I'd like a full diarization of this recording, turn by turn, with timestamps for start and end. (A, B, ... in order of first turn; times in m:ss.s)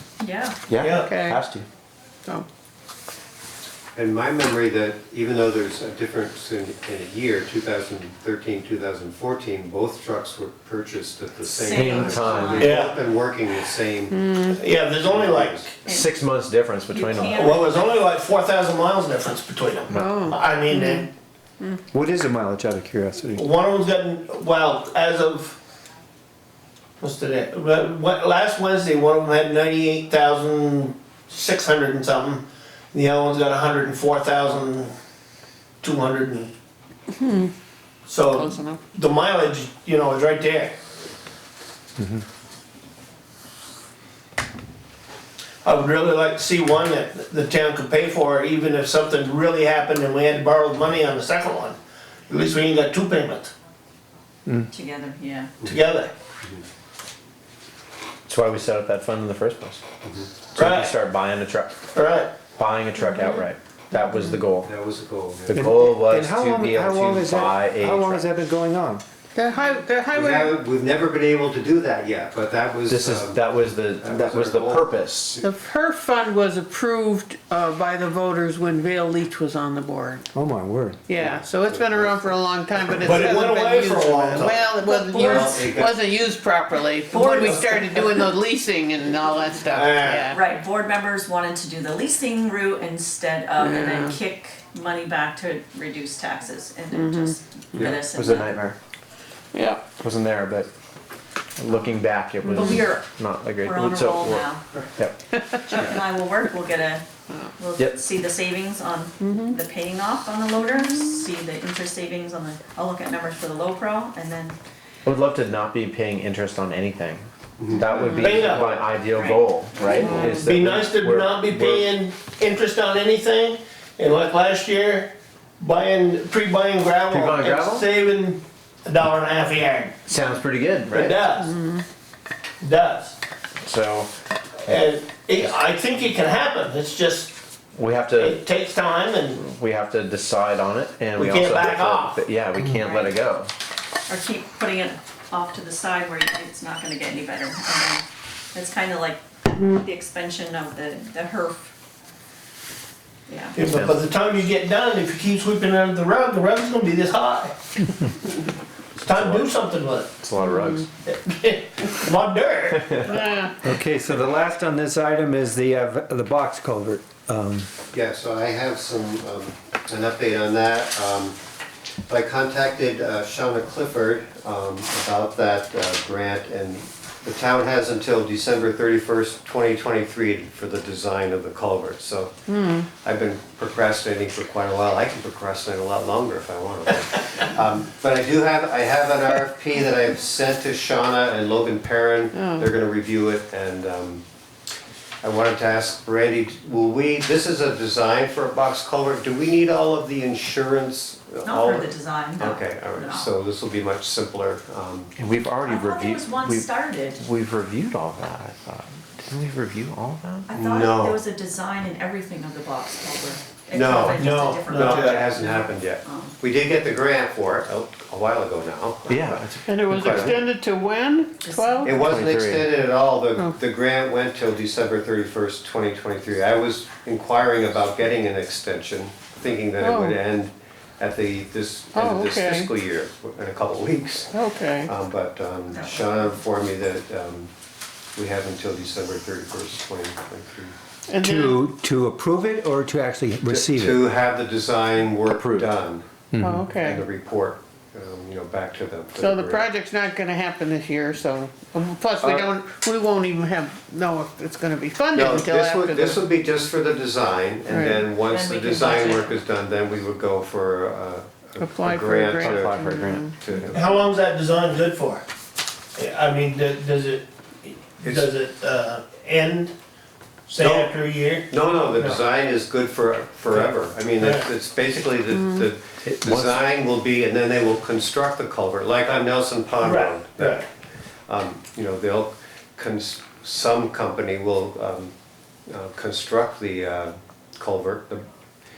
0:00.2-0:00.6 A
0:00.7-0:01.6 B
0:00.8-0:01.1 C
0:00.9-0:01.4 D
0:03.9-0:14.2 E
0:11.5-0:12.8 A
0:11.7-0:12.7 B
0:12.6-0:12.9 C
0:14.1-0:14.6 D
0:14.5-0:15.7 C
0:15.0-0:15.7 E
0:15.8-0:16.1 A
0:15.9-0:17.4 B
0:16.9-0:18.0 A
0:17.2-0:21.1 C
0:19.9-0:21.0 D
0:21.9-0:23.4 F
0:23.3-0:25.6 C
0:27.0-0:34.9 C
0:35.8-0:36.5 C
0:37.1-0:37.5 D
0:38.1-0:40.8 C
0:38.4-0:38.8 D
0:45.6-0:51.8 C
0:52.3-0:53.5 C
0:54.6-0:55.5 A
0:55.6-0:56.1 C
0:58.3-0:59.8 B
1:00.5-1:01.8 B
1:00.6-1:01.0 C
1:01.9-1:02.4 C
1:02.5-1:04.7 B
1:03.1-1:03.4 D
1:04.6-1:05.7 E
1:05.5-1:08.3 B
1:05.5-1:09.0 F
1:09.3-1:10.6 D
1:10.1-1:13.5 E
1:12.9-1:15.4 B
1:14.0-1:14.9 E
1:15.4-1:20.2 D
1:20.3-1:21.0 F
1:21.1-1:30.4 D
1:21.2-1:22.2 E
1:23.0-1:25.5 C
1:25.1-1:26.0 E
1:27.1-1:27.7 A
1:27.4-1:28.2 C
1:29.7-1:30.3 E
1:30.3-1:38.6 A
1:33.6-1:34.2 D
1:36.9-1:37.4 D
1:37.8-1:38.8 B
1:39.5-1:39.8 D
1:40.0-1:40.7 B
1:41.6-1:45.2 B
1:42.4-1:43.1 A
1:43.6-1:44.7 A
1:45.4-1:47.0 A
1:47.6-1:54.6 A
1:49.2-1:49.5 D
1:55.0-2:01.9 B
1:57.6-1:58.2 E
1:58.1-1:58.9 C
1:59.1-2:00.4 A
1:59.8-2:09.9 C
2:07.1-2:07.9 B
2:10.0-2:11.2 B
2:10.9-2:11.5 C
2:11.4-2:11.8 D
2:12.6-2:13.1 C
2:13.6-2:14.1 B
2:14.7-2:17.3 C
2:17.8-2:18.4 B
2:18.2-2:19.4 C
2:19.3-2:23.5 B
2:21.2-2:22.2 C
2:22.8-2:23.1 A
2:24.1-2:31.7 A
2:33.3-2:33.6 A
2:33.6-2:37.5 C
2:33.6-2:34.0 B
2:39.0-2:40.1 C
2:39.0-2:39.5 B
2:40.2-2:40.9 B
2:40.4-2:40.8 D
2:41.0-2:43.0 C
2:42.7-2:43.1 B
2:43.0-2:43.6 D
2:43.6-2:47.7 F
2:47.9-2:51.4 E
2:52.1-3:02.3 E
3:02.5-3:02.9 D
3:03.0-3:14.2 E
3:12.3-3:12.7 D
3:15.2-3:25.1 E
3:21.4-3:23.3 A
3:25.2-3:30.5 B
3:25.6-3:27.2 A
3:30.5-3:36.3 A
3:30.5-3:31.2 E
3:33.7-3:40.4 E
3:34.1-3:35.2 C
3:39.1-3:40.4 B
3:39.6-3:41.9 D
3:41.4-3:42.2 A
3:41.8-3:54.3 E
3:42.0-3:42.7 B
3:49.8-3:50.2 D
3:51.9-3:52.7 D
3:54.3-3:54.9 D
3:54.8-3:57.5 E
3:55.7-3:56.4 A
3:58.1-4:00.7 E
4:01.1-4:01.6 D
4:01.2-4:04.0 F
4:03.5-4:06.1 E
4:06.3-4:06.6 F
4:06.4-4:07.0 D
4:06.6-4:09.7 E
4:09.2-4:16.2 D
4:12.2-4:12.5 E
4:15.1-4:24.1 E
4:17.7-4:18.0 D
4:18.2-4:19.4 A
4:21.6-4:23.4 D
4:22.4-4:23.7 F
4:23.7-4:25.2 C
4:26.0-4:29.7 C
4:28.0-4:28.3 E
4:30.5-4:32.2 C
4:30.6-4:30.9 E
4:31.5-4:40.7 E
4:33.5-4:34.5 C
4:35.4-4:35.6 D
4:36.0-4:36.6 B
4:39.8-4:40.6 C
4:41.3-4:45.1 E
4:45.7-4:48.2 E